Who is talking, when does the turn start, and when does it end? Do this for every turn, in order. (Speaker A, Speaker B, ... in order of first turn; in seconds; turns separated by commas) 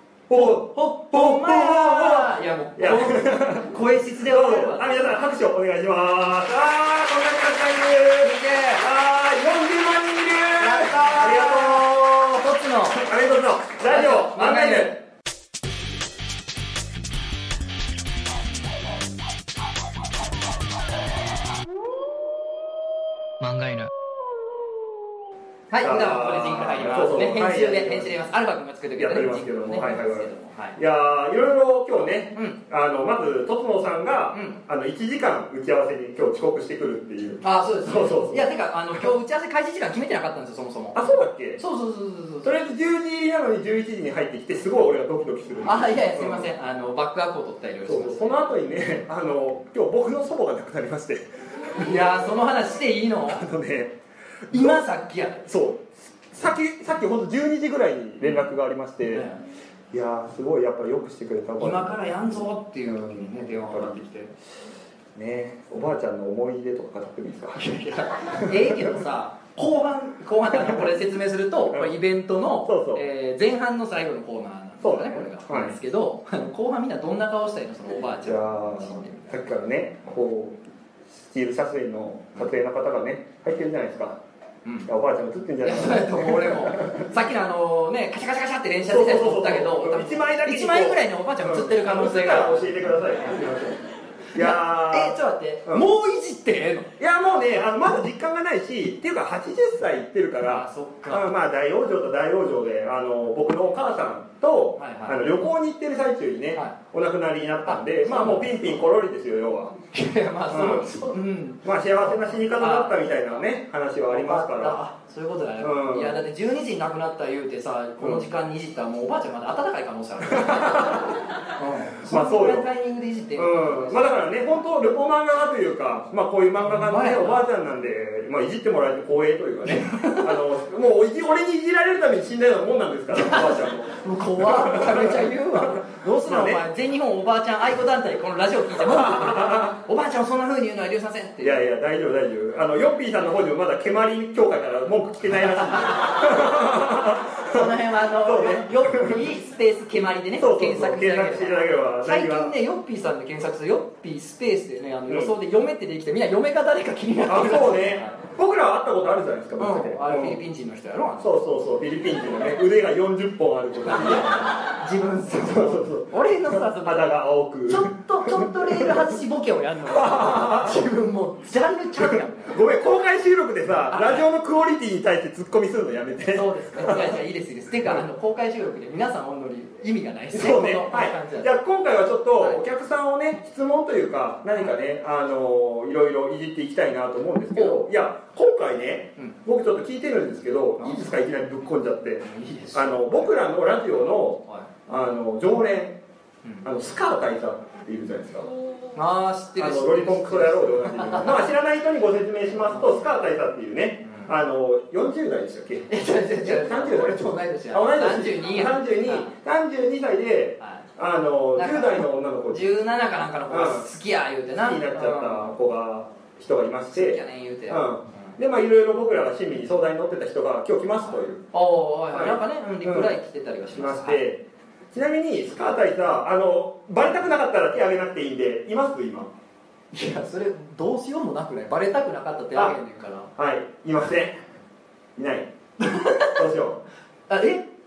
Speaker A: 0.3-3.7, Speaker B: 0.3-5.1, Speaker A: 4.2-12.0, Speaker B: 8.2-8.8, Speaker B: 10.6-13.0, Speaker A: 12.9-15.0, Speaker B: 13.8-15.0, Speaker B: 23.4-23.9, Speaker B: 25.7-30.8, Speaker A: 25.8-28.1, Speaker A: 29.0-39.1, Speaker B: 32.3-32.6, Speaker B: 34.3-34.6, Speaker B: 37.4-42.6, Speaker A: 40.9-41.6, Speaker A: 42.4-46.5, Speaker B: 45.6-48.4, Speaker A: 47.8-52.1, Speaker B: 51.8-53.4, Speaker A: 53.2-54.0, Speaker A: 54.5-54.9, Speaker B: 54.5-55.5, Speaker A: 55.5-59.3, Speaker B: 58.2-58.5, Speaker B: 59.1-59.4, Speaker A: 59.9-64.0, Speaker B: 61.6-64.3, Speaker A: 65.1-68.9, Speaker B: 67.5-79.5, Speaker A: 70.5-70.9, Speaker A: 71.7-72.0, Speaker A: 72.6-73.0, Speaker A: 74.8-75.8, Speaker A: 78.2-80.6, Speaker A: 81.1-84.2, Speaker A: 84.8-87.1, Speaker B: 85.6-92.9, Speaker A: 88.8-93.8, Speaker A: 94.3-95.9, Speaker B: 94.3-96.9, Speaker A: 97.0-109.7, Speaker B: 100.4-101.3, Speaker B: 104.8-105.3, Speaker B: 107.6-108.8, Speaker B: 109.9-113.5, Speaker A: 110.5-111.0, Speaker A: 111.6-114.8, Speaker B: 114.0-124.1, Speaker A: 115.6-116.2, Speaker A: 118.0-118.2, Speaker A: 120.4-121.0, Speaker A: 121.9-122.7, Speaker A: 123.3-136.6, Speaker B: 126.6-127.5, Speaker B: 129.6-130.4, Speaker B: 133.1-141.6, Speaker A: 138.8-139.7, Speaker A: 141.4-147.7, Speaker B: 147.5-158.2, Speaker A: 148.2-149.3, Speaker A: 150.4-152.5, Speaker A: 155.1-155.3, Speaker A: 157.2-160.4, Speaker B: 159.6-161.3, Speaker A: 161.2-164.6, Speaker B: 163.8-167.1, Speaker A: 165.4-169.0, Speaker B: 167.7-172.6, Speaker A: 169.9-170.8, Speaker A: 172.0-177.2, Speaker B: 173.9-174.3, Speaker B: 176.3-181.5, Speaker A: 180.3-196.0, Speaker B: 187.5-187.8, Speaker B: 190.8-191.2, Speaker B: 192.2-193.4, Speaker B: 194.3-194.7, Speaker A: 196.6-198.5, Speaker B: 198.9-201.5, Speaker A: 199.6-212.7, Speaker B: 202.6-203.2, Speaker B: 204.0-204.3, Speaker B: 205.9-209.3, Speaker B: 210.6-210.9, Speaker B: 211.6-215.5, Speaker A: 213.5-213.9, Speaker A: 214.5-221.5, Speaker B: 216.9-218.3, Speaker B: 221.5-224.2, Speaker A: 222.1-223.2, Speaker A: 223.7-229.3, Speaker B: 229.9-233.3, Speaker A: 233.3-234.4, Speaker A: 235.2-235.5, Speaker B: 235.8-236.4, Speaker A: 236.3-236.8, Speaker B: 237.3-237.6